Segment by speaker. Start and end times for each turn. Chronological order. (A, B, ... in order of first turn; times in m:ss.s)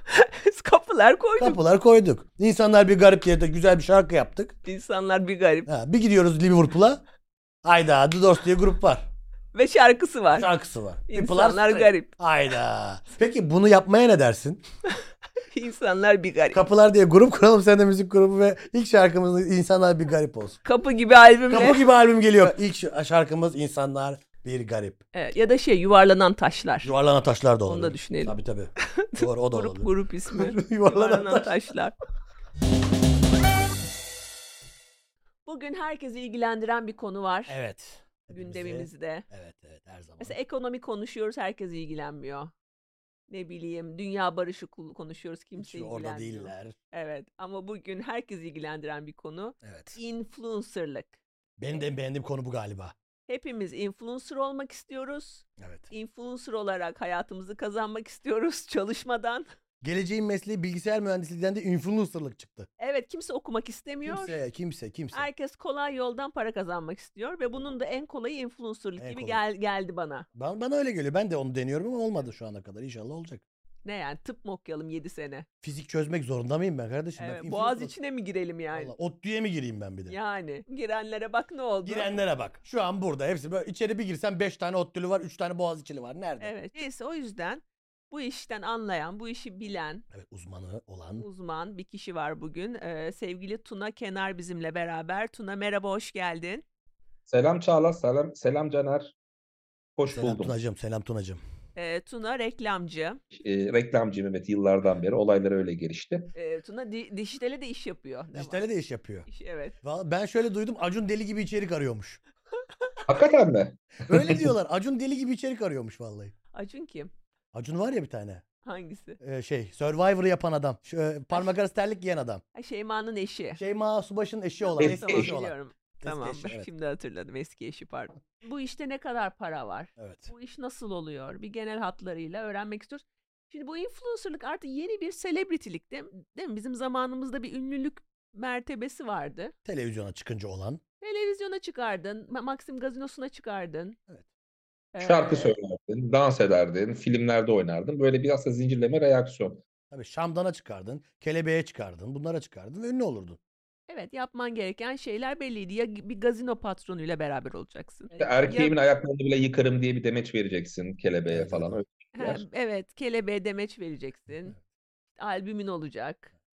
0:00.1-0:01.6 A
0:01.4-0:04.6 B
0:04.6-0:05.7 A
0:05.6-0:07.0 B
0:07.6-0:09.1 B
0:09.5-0:10.5 A
0:10.3-0:14.6 B
0:11.1-0:12.1 A
0:15.5-0:16.6 A
0:16.5-0:20.6 B
0:20.6-0:21.8 A
0:21.5-0:25.0 B
0:25.1-0:26.9 A
0:26.8-0:31.5 B
0:27.6-0:32.0 A
0:35.4-0:37.6 A
0:37.5-0:40.4 B
0:38.3-0:39.2 A
0:40.2-0:42.5 A
0:43.3-0:51.2 A
0:45.6-0:46.8 B
0:49.6-0:50.0 B
0:51.6-0:52.9 B
0:53.3-0:59.4 A
0:55.6-0:55.9 B
0:59.8-1:02.7 B
1:02.8-1:04.4 A
1:04.0-1:05.3 B
1:05.1-1:10.3 A
1:09.0-1:09.4 B
1:10.3-1:13.4 B
1:13.8-1:15.4 A
1:15.6-1:17.9 B
1:17.2-1:18.9 A
1:18.7-1:20.2 B
1:20.1-1:22.1 A
1:21.8-1:26.6 B
1:26.4-1:30.0 A
1:30.1-1:31.2 B
1:31.2-1:36.6 A
1:37.3-1:39.1 C
1:40.0-1:40.5 C
1:40.1-1:41.4 B
1:41.8-1:43.2 A
1:43.3-1:46.3 C
1:46.3-1:48.7 A
1:48.3-1:49.3 B
1:49.3-1:49.8 A
1:49.8-1:52.2 B
1:53.1-1:54.5 C
1:54.1-1:56.3 B
1:56.5-1:57.1 A
1:57.5-1:58.4 B
1:58.6-1:59.2 A
1:59.2-2:02.4 B
2:02.5-2:03.6 A
2:03.6-2:06.7 B
2:04.6-2:19.5 A
2:04.8-2:05.3 C
2:10.0-2:10.3 B
2:19.6-2:20.8 B
2:21.0-2:24.0 A
2:24.9-2:25.5 A
2:25.0-2:29.6 C
2:29.9-2:33.4 B
2:33.9-2:38.7 A
2:38.2-2:42.4 C
2:41.3-2:41.8 B
2:42.1-2:44.6 A
2:45.2-2:46.3 A